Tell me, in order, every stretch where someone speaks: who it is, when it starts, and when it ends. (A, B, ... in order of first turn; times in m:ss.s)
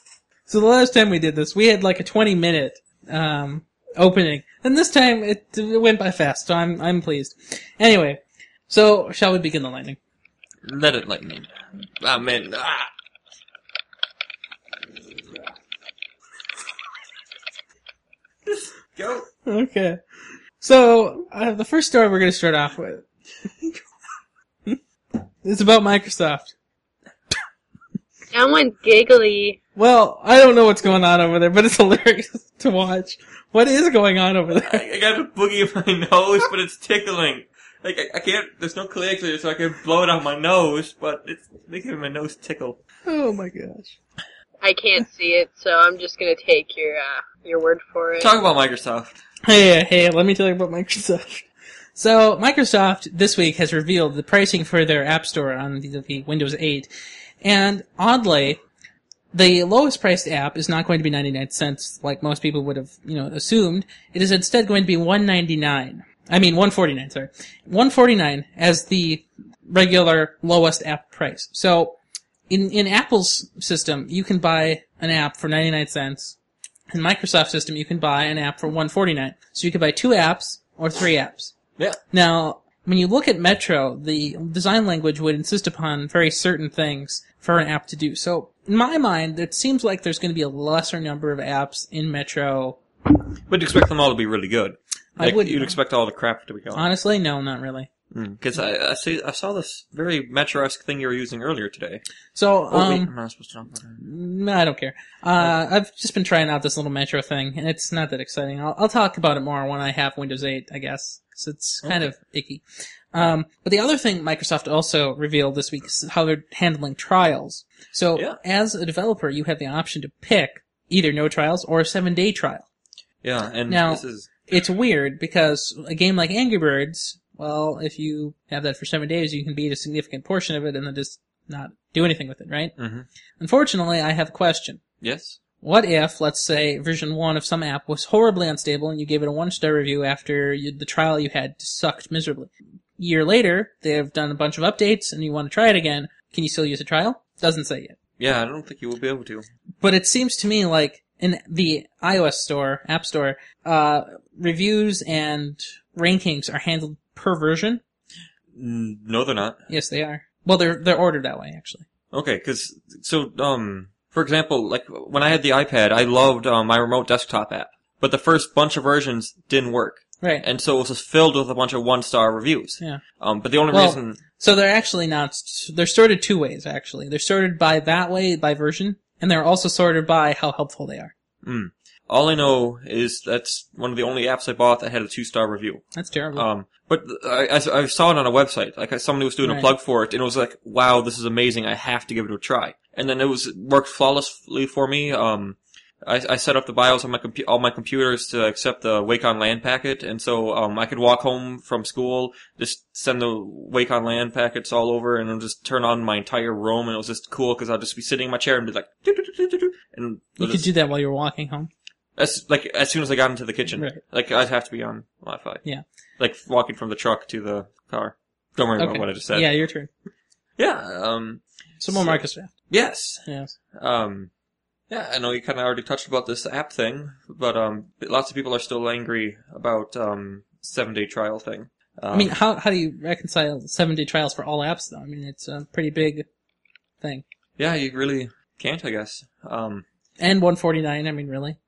0:00.5-0:10.0 A
0:10.6-0:12.9 B
0:18.5-0:19.3 B
0:19.4-0:20.0 A
0:20.6-0:23.0 A
0:25.4-0:26.5 A
0:28.3-0:29.6 C
0:29.8-0:34.8 A
0:34.6-0:42.8 B
0:43.1-0:44.0 A
0:44.6-0:48.3 C
0:48.2-0:49.2 B
0:49.4-0:56.9 A
0:57.4-0:58.6 A
0:59.3-1:12.0 A
1:12.5-1:16.4 A
1:16.9-1:21.5 A
1:22.1-1:32.8 A
1:33.5-1:36.9 B
1:35.2-1:35.8 A
1:36.7-1:37.9 A
1:38.1-1:42.0 B
1:42.3-1:43.1 A
1:42.7-1:44.0 B
1:44.0-1:52.6 A
1:53.1-2:02.6 A
2:03.2-2:04.3 B
2:03.7-2:12.7 A
2:12.8-2:13.1 B
2:13.4-2:14.8 A
2:15.0-2:15.4 B
2:15.6-2:28.0 A
2:28.2-2:29.5 B
2:29.8-2:37.8 A
2:38.5-2:39.6 B
2:39.7-2:41.8 A
2:42.1-2:54.2 B
2:53.7-3:01.1 A
3:01.4-3:05.8 B
3:05.9-3:06.5 A
3:06.3-3:30.7 B
3:09.4-3:09.7 A
3:30.4-3:31.7 A
3:32.2-3:35.6 B
3:36.2-3:39.5 B
3:38.8-3:39.9 A
3:40.6-3:44.3 B
3:41.8-3:42.5 A
3:43.2-3:43.5 A
3:44.9-3:52.3 B
3:52.1-3:56.2 A
3:57.6-3:59.8 B
4:00.2-4:01.6 A